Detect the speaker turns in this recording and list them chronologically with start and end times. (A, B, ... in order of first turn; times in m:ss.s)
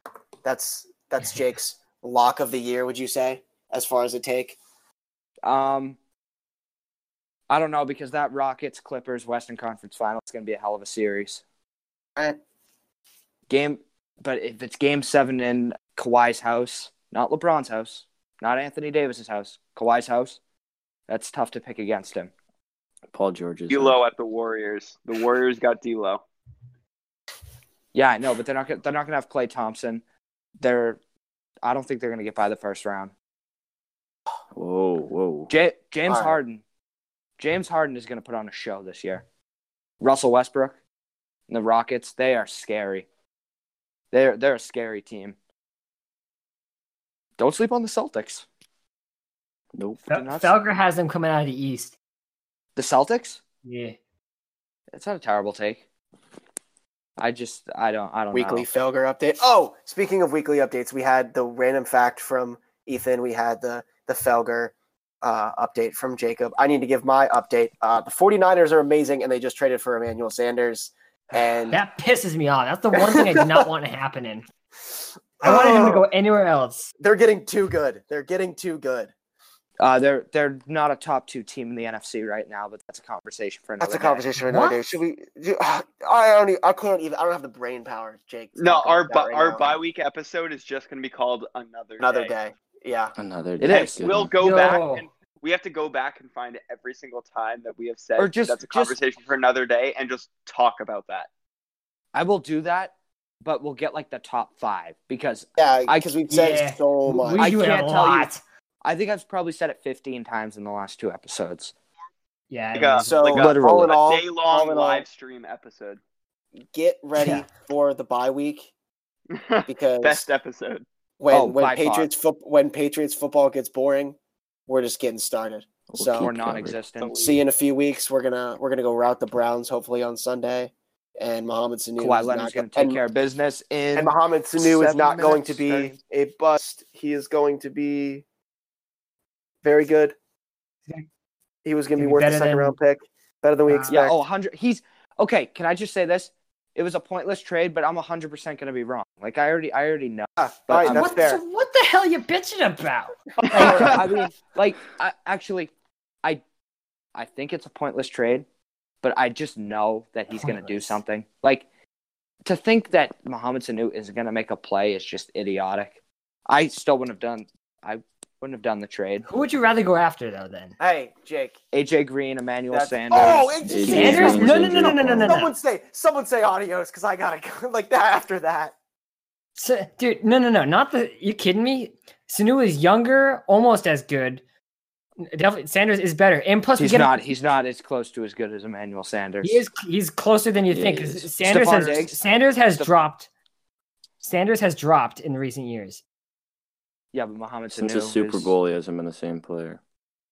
0:00.4-0:04.6 A
0:05.4-0:06.0 B
0:07.5-0:11.4 B
0:13.5-0:20.4 B
0:21.1-0:22.3 B
0:23.1-0:24.0 C
0:23.7-0:26.2 D
0:27.9-0:30.0 B
0:30.6-0:31.0 B
0:31.6-0:33.1 B
0:34.5-0:35.5 C
0:35.5-0:36.6 B
0:36.1-0:36.4 A
0:37.4-0:39.2 B
0:40.0-0:40.8 B
0:41.5-0:43.0 B
0:44.1-0:45.4 B
0:47.4-0:48.4 B
0:49.8-0:50.0 C
0:50.0-0:50.5 B
0:50.1-0:51.9 E
0:52.8-0:53.4 B
0:53.6-0:54.0 E
0:54.9-0:55.8 B
0:57.2-0:58.7 B
0:58.3-1:11.8 A
1:11.7-1:14.4 E
1:12.9-1:13.7 A
1:15.4-1:16.0 A
1:15.4-1:16.9 E
1:17.0-1:19.1 A
1:19.8-1:24.2 B
1:23.8-1:29.8 A
1:24.4-1:24.8 E
1:28.6-1:32.3 D
1:32.0-1:33.1 A
1:33.2-1:34.4 C
1:33.6-1:34.0 B
1:33.7-1:41.3 D
1:34.4-1:35.1 E
1:38.2-1:39.0 B
1:42.1-1:46.1 B
1:45.6-1:47.5 A
1:46.3-1:48.4 E
1:47.4-1:48.3 B
1:48.8-1:51.7 B
1:52.5-1:53.2 E
1:52.7-1:56.0 D
1:53.0-1:55.0 A
1:53.2-1:54.0 B
1:56.7-1:58.7 A
1:57.2-1:57.5 E
1:59.3-2:00.8 D
1:59.7-2:00.2 A
2:01.2-2:04.2 A
2:01.3-2:02.1 B
2:04.7-2:06.3 A
2:05.9-2:06.8 C
2:06.2-2:07.3 B
2:07.0-2:07.4 D
2:07.2-2:13.0 A
2:12.0-2:16.0 B
2:13.9-2:18.2 A
2:19.6-2:20.2 A
2:21.6-2:24.2 A
2:22.0-2:22.8 E
2:23.7-2:24.0 E
2:23.9-2:31.1 B
2:30.4-2:31.4 A
2:30.9-2:34.0 E
2:33.4-2:33.9 D
2:33.5-2:34.0 A
2:33.5-2:35.7 B
2:37.1-2:38.4 B
2:39.0-2:41.6 B
2:40.4-2:41.0 E
2:42.4-2:46.0 B
2:46.5-2:49.2 B
2:49.3-2:50.8 E
2:50.8-2:51.6 A
2:51.7-2:54.3 B
2:52.7-2:58.7 A
2:53.6-2:55.5 E
2:53.6-2:55.4 C
2:59.6-3:04.4 E
3:05.2-3:07.2 E
3:06.8-3:09.6 B
3:09.4-3:13.3 E
3:10.7-3:11.3 C
3:11.4-3:12.2 B
3:14.2-3:16.0 E
3:17.1-3:18.5 B
3:17.7-3:19.8 C